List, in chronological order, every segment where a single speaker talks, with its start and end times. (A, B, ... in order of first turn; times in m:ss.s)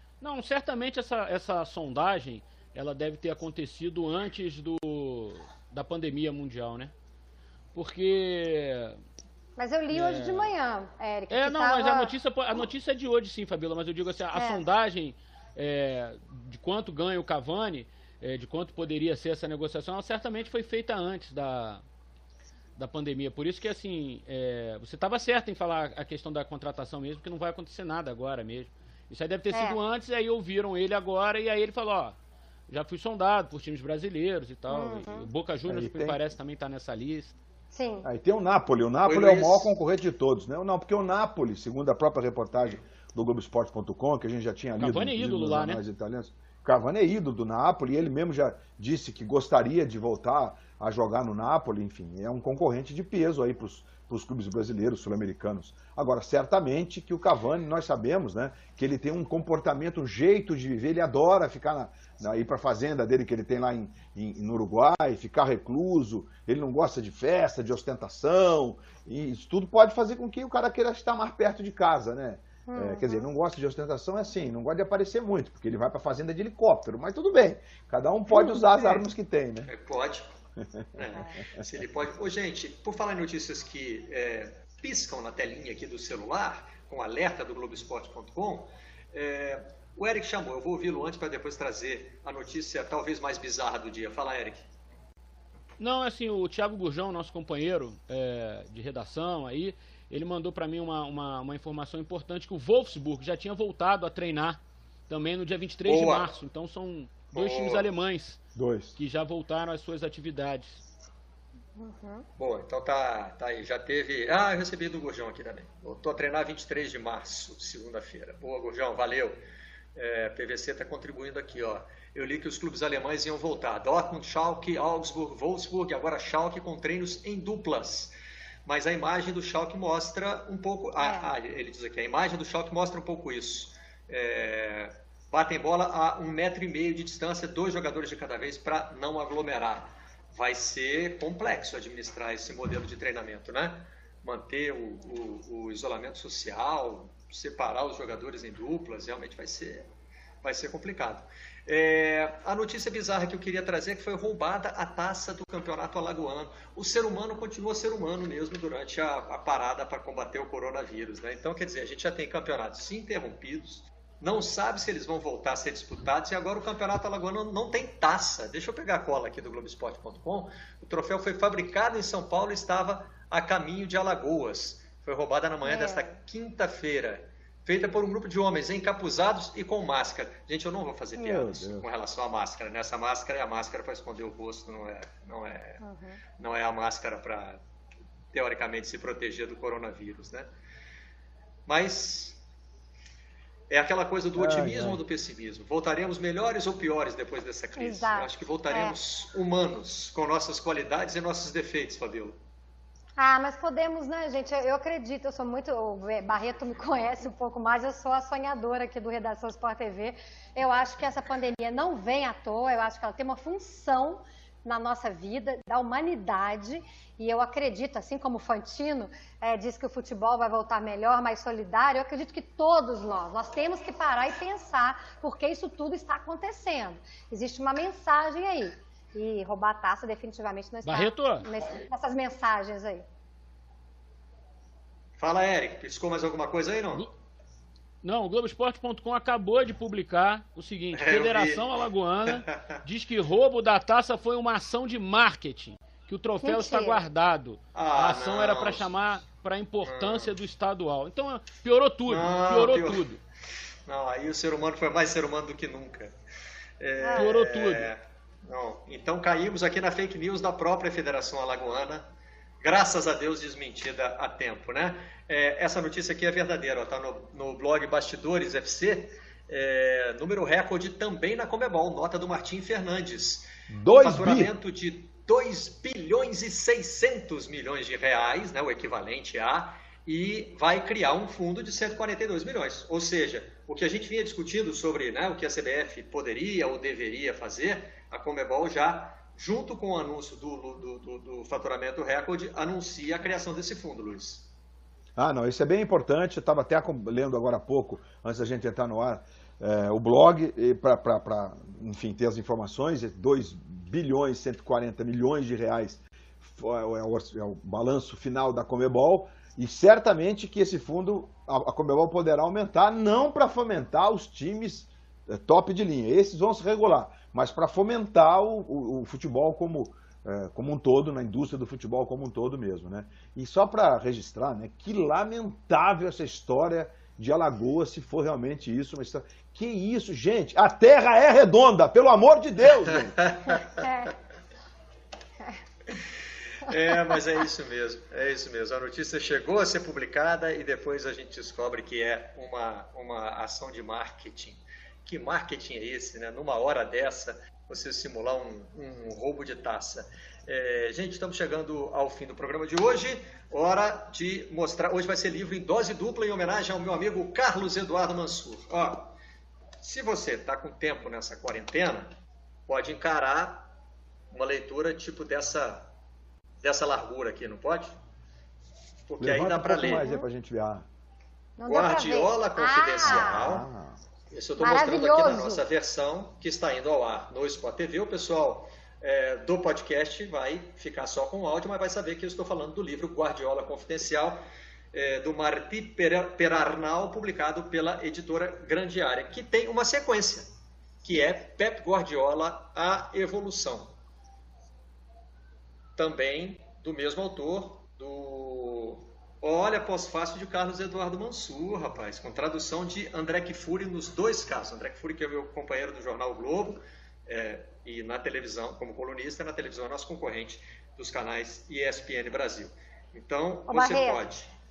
0:00.2-0:06.9 A
0:07.7-0:09.0 A
0:09.6-0:12.1 B
0:09.9-0:10.5 A
0:11.3-0:21.8 A
0:14.3-0:14.6 B
0:22.8-0:32.2 A
0:29.5-0:29.8 B
0:32.7-0:37.4 A
0:34.7-0:35.3 B
0:35.7-0:36.2 C
0:37.7-0:38.1 B
0:38.0-1:19.7 C
0:39.0-0:39.7 D
0:44.8-0:45.8 A
1:12.7-1:13.3 B
1:18.7-1:19.0 D
1:19.7-1:20.3 D
1:20.9-1:34.6 D
1:35.8-1:48.4 A
1:45.8-1:46.3 D
1:47.3-1:47.9 D
1:48.5-1:48.9 C
1:49.0-1:50.8 A
1:51.8-1:52.2 B
1:52.4-1:59.4 D
2:00.0-2:08.1 D
2:08.6-2:29.9 D
2:11.0-2:11.3 B
2:30.4-3:05.8 D
2:55.6-2:56.2 B
3:01.2-3:01.8 C
3:05.8-3:06.2 B
3:06.4-3:07.6 D
3:08.3-3:10.5 D
3:11.6-3:12.4 D
3:13.7-3:22.4 D
3:14.4-3:15.0 C
3:17.8-3:19.0 B
3:23.2-3:53.0 B
3:50.8-3:51.5 A
3:55.2-3:57.1 D
3:58.0-4:13.2 A
4:00.9-4:02.8 D
4:06.4-4:07.0 B
4:07.7-4:08.9 D
4:09.8-4:10.3 D
4:12.1-4:13.0 D
4:13.9-4:16.1 D
4:16.8-4:22.0 D
4:17.0-4:17.3 B
4:17.2-4:17.9 A
4:22.6-4:54.5 D
4:33.7-4:34.5 C
4:55.2-5:33.2 C
5:32.8-5:33.9 D
5:33.5-5:34.1 B
5:36.6-5:59.1 D
5:59.8-6:02.1 D
6:02.7-6:03.7 D
6:04.3-6:05.9 D
6:06.6-6:07.9 D
6:09.1-6:10.0 D
6:09.2-6:10.8 C
6:09.8-6:10.3 B
6:11.6-6:13.4 B
6:11.6-6:13.6 D
6:13.0-6:14.0 C
6:14.3-6:24.4 D
6:14.6-6:15.6 B
6:24.9-6:30.5 D
6:31.0-6:33.9 D
6:36.0-6:54.5 D
6:53.7-6:54.2 B